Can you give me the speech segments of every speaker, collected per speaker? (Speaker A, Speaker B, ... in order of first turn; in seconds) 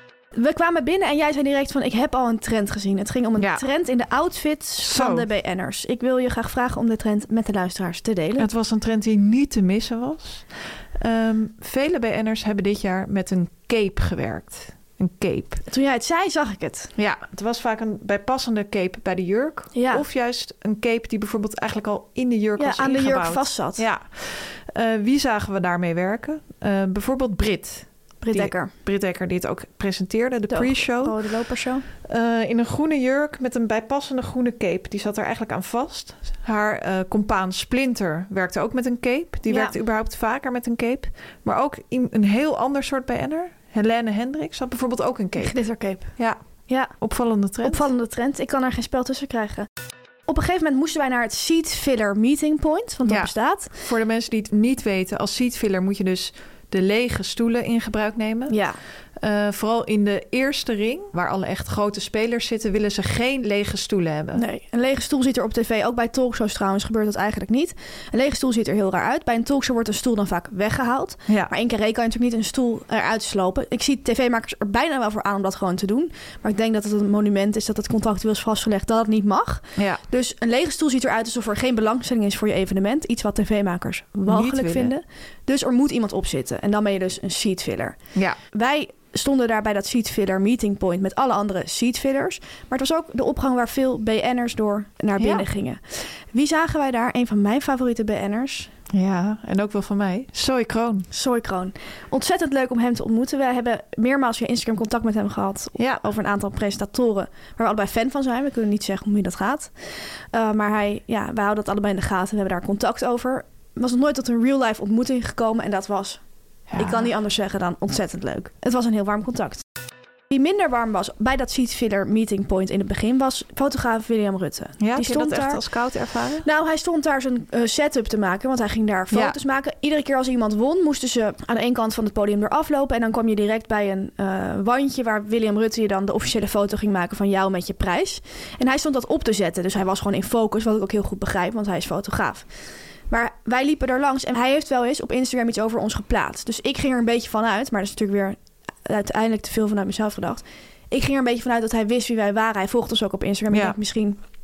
Speaker A: 0.3-8.5, 15.7-16.9, 19.7-20.0, 22.6-23.8, 28.2-28.7, 30.5-31.9, 39.5-39.7, 45.4-46.1, 46.7-47.0, 47.6-49.7, 50.3-53.7, 58.5-58.8, 64.3-88.0, 88.5-98.7, 101.1-116.2, 116.8-119.6, 120.3-125.6, 126.4-142.5, 143.1-154.2
Speaker B: 3.4-3.6, 4.8-5.3, 8.4-15.6, 16.9-31.4, 32.0-45.6, 47.0-47.9, 53.0-58.6, 59.1-64.4, 71.3-71.5, 79.8-80.0, 84.2-84.9, 95.2-95.5, 98.9-101.1, 105.8-106.0, 116.7-117.1, 124.8-126.5, 129.1-129.4, 153.5-153.8